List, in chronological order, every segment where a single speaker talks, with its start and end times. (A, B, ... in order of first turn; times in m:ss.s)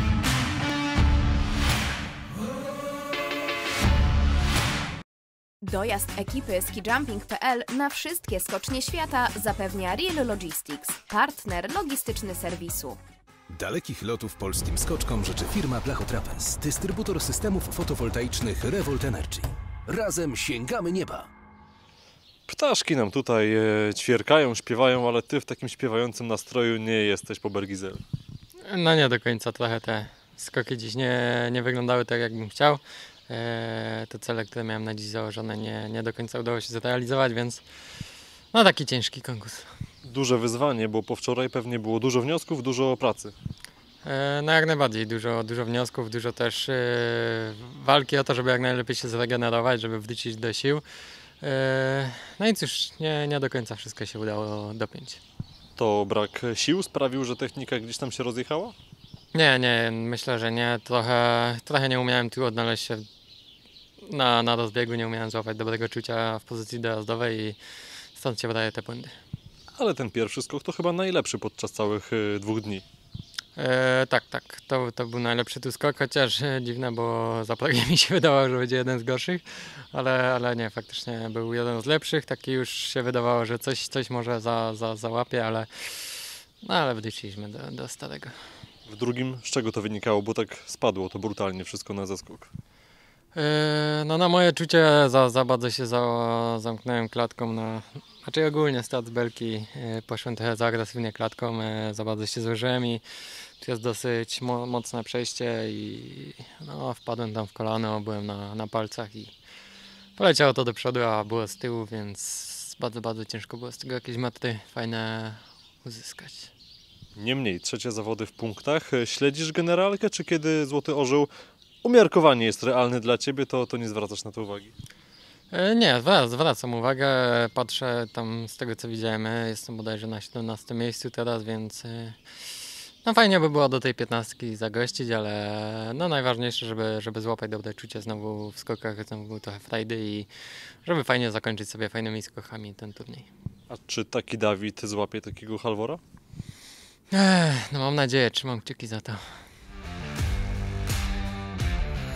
0:05.6-0:13.0 A
0:13.5-0:21.3 B
0:22.5-0:28.0 C
0:28.6-0:37.6 D
0:38.5-0:39.7 D
0:40.0-0:43.3 C
0:44.0-0:50.8 D
0:51.4-0:55.2 D
0:55.8-0:58.7 C
0:59.3-1:03.0 D
1:04.0-1:07.6 D
1:08.1-1:09.1 D
1:09.7-1:12.8 C
1:13.6-1:28.3 D
1:28.9-1:32.5 C
1:33.3-1:43.0 D
1:43.6-1:49.3 D
1:50.2-1:56.5 D
1:57.2-2:01.3 C
2:01.8-2:04.7 C
2:05.5-2:12.2 D
2:13.0-2:20.3 D
2:20.8-2:23.3 D
2:23.7-2:26.0 C
2:27.1-2:29.2 D